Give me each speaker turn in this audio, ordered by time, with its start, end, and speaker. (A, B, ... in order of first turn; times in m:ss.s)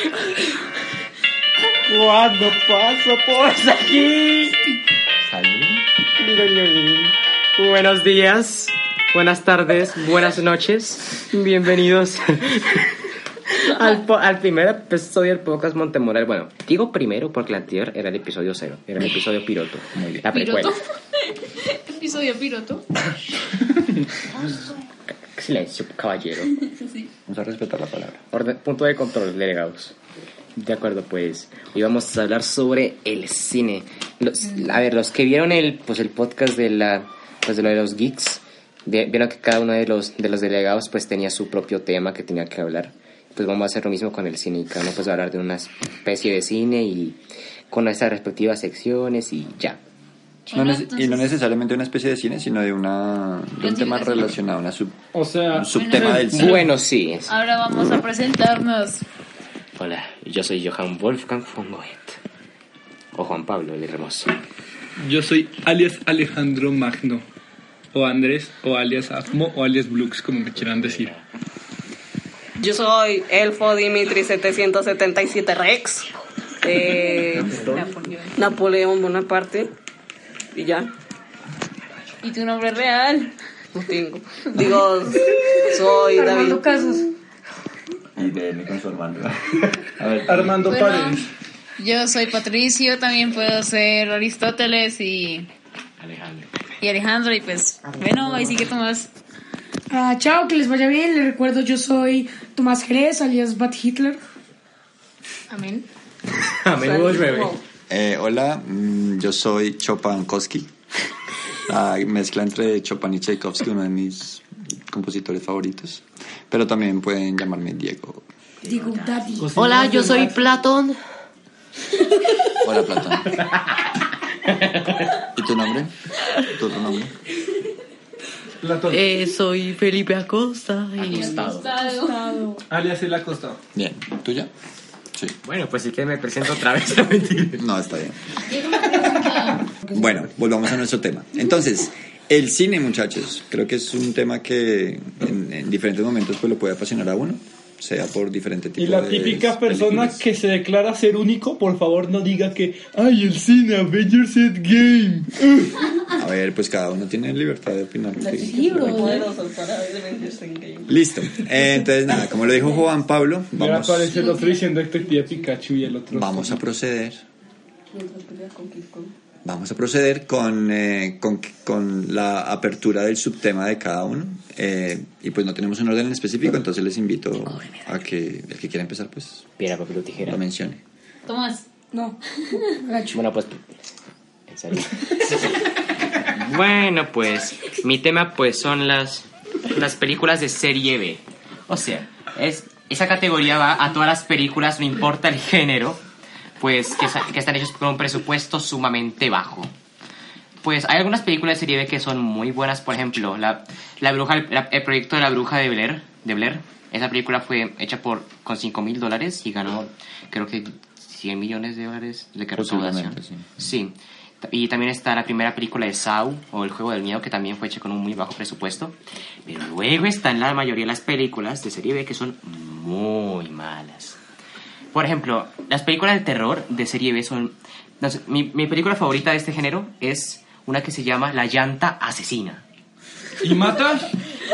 0:01.9-0:04.6 A
0:05.3-0:12.9 A
0:13.6-0:20.8 A
0:19.9-0:20.3 B
0:20.3-0:22.8 C
0:25.4-0:26.6 A
0:26.8-0:27.1 C
0:27.3-0:28.2 B
0:28.3-0:30.0 A
0:30.6-0:47.2 A
0:47.7-0:49.8 A
0:50.5-0:51.3 C
0:50.5-0:56.6 B
0:53.6-0:54.4 C
0:55.1-0:56.7 D
0:55.7-0:56.2 C
0:56.3-0:57.4 A
0:57.3-0:59.0 C
0:59.8-1:02.2 A
1:03.1-1:04.3 A
1:05.0-1:07.2 D
1:07.9-1:11.1 D
1:10.6-1:11.2 A
1:12.6-1:17.5 E
1:17.4-1:17.9 B
1:17.5-1:17.8 A
1:17.7-1:18.4 C
1:18.4-1:19.7 E
1:20.5-1:20.9 E
1:22.2-1:23.3 C
1:23.8-1:26.7 E
1:26.1-1:27.1 F
1:28.2-1:30.6 B
1:30.3-1:31.3 D
1:30.7-1:31.2 C
1:31.8-1:35.5 C
1:36.0-1:36.5 A
1:36.8-1:39.1 C
1:39.9-1:44.2 F
1:45.5-1:45.9 F
1:46.5-1:47.5 A
1:46.7-1:47.6 E
1:47.9-1:50.7 B
1:51.7-1:58.2 B
1:58.6-1:59.2 A
1:58.7-1:59.8 F
1:59.4-2:00.4 D
1:59.5-2:01.0 G
2:02.6-2:03.4 B
2:04.5-2:05.2 A
2:05.3-2:05.9 B
2:06.4-2:07.1 B
2:08.6-2:09.1 D
2:08.8-2:11.4 G
2:11.0-2:11.7 A
2:11.0-2:12.3 C
2:11.8-2:12.6 F
2:12.7-2:13.6 D
2:13.8-2:14.5 B
2:15.4-2:17.6 A
2:17.6-2:18.2 B
2:18.5-2:19.7 C
2:19.9-2:30.2 B
2:28.8-2:35.7 D
2:36.1-2:39.1 B
2:38.2-2:39.3 F
2:38.6-2:40.9 E
2:38.8-2:39.2 C
2:40.9-2:44.3 B
2:43.6-2:46.6 D
2:46.1-2:47.2 B
2:47.9-2:49.1 E
2:49.4-2:59.5 B
2:59.6-3:00.4 A
3:00.3-3:00.8 B
3:01.3-3:01.7 C
3:01.9-3:03.2 F
3:03.1-3:03.8 A
3:04.5-3:05.4 A
3:06.2-3:16.0 A
3:16.6-3:19.7 A
3:20.6-3:39.0 A
3:32.6-3:33.5 B
3:39.5-3:44.2 A
3:44.9-3:52.6 A
3:53.4-3:54.1 D